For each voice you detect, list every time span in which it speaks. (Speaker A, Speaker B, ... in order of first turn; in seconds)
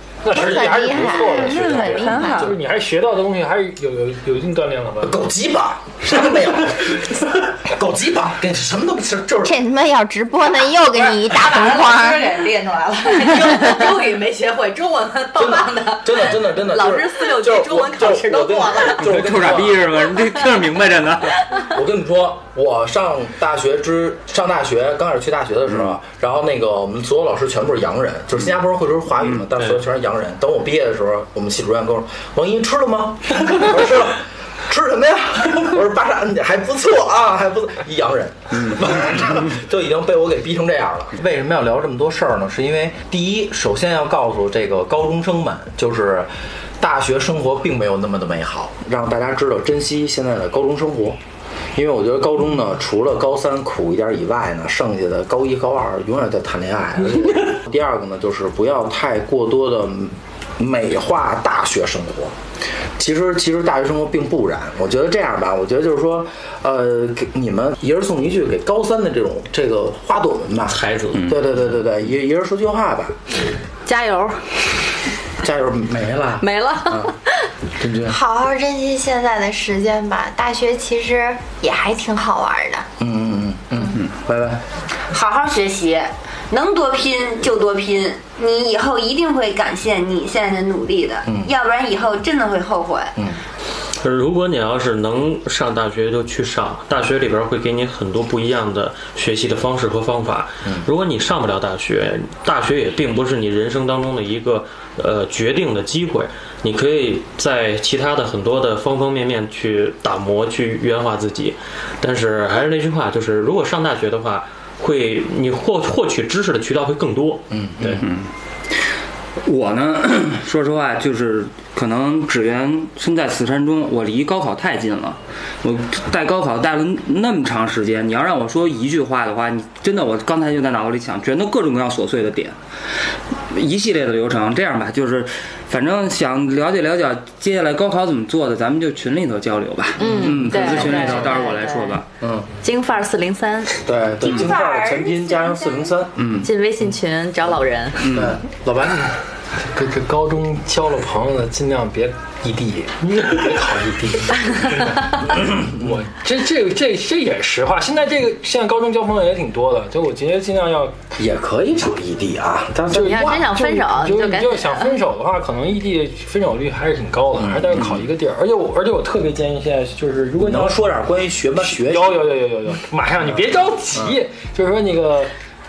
Speaker A: 0.2-5.2, 149.7-161.0, 162.9-170.8, 171.6-175.3
Speaker B: 0.3-2.3, 70.6-71.3, 94.0-118.1
Speaker C: 0.3-2.4, 9.4-12.3, 78.0-82.9, 144.6-145.0
Speaker D: 0.9-2.5, 85.1-93.2, 144.3-145.5
Speaker E: 5.0-9.6, 15.3-20.0, 21.6-46.3, 46.8-51.2, 51.7-62.4, 63.0-73.2, 75.4-77.1, 77.8-78.2, 83.0-84.6, 91.3-91.5, 117.5-118.0, 140.5-141.1, 142.2-142.5, 143.8-146.3, 148.1-149.1, 161.2-163.4, 167.3-167.9, 170.4-172.2
Speaker F: 10.9-19.1, 73.8-74.6, 76.4-77.3, 140.0-142.0, 142.6-143.8, 146.4-148.1, 154.4-155.2, 162.9-165.0
Speaker G: 19.0-21.6, 118.0-118.3, 119.4-132.6, 133.5-142.1, 146.2-146.5, 148.0-148.4